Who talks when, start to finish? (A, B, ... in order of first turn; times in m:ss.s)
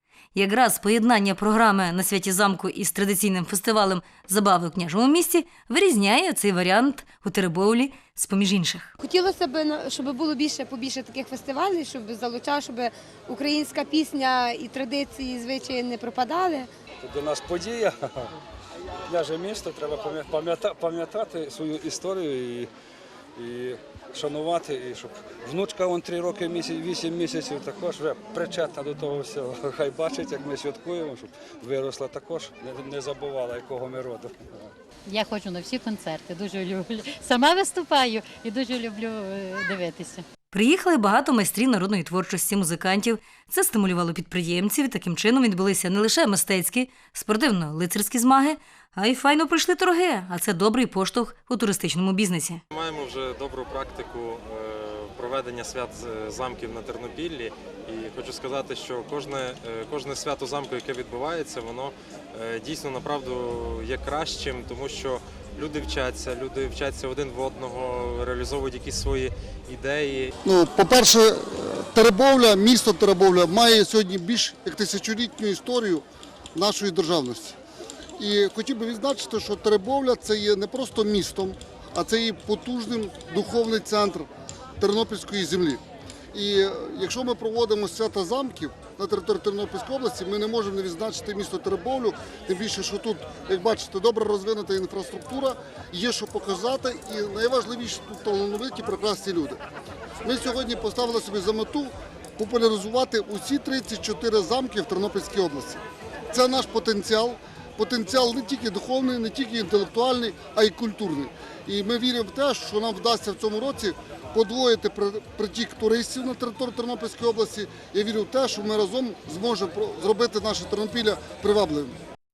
0:00.3-0:08.9 A
0:09.0-0:16.7 B
0:17.0-0:18.3 C
0:19.1-0:22.7 C
0:23.4-0:34.7 C
0:35.0-0:40.2 D
0:40.5-0:52.6 A
0:52.7-1:10.3 E
1:10.4-1:17.6 F
1:18.2-1:24.3 F
1:24.8-1:25.8 F
1:26.3-1:39.6 F
1:40.2-2:02.0 F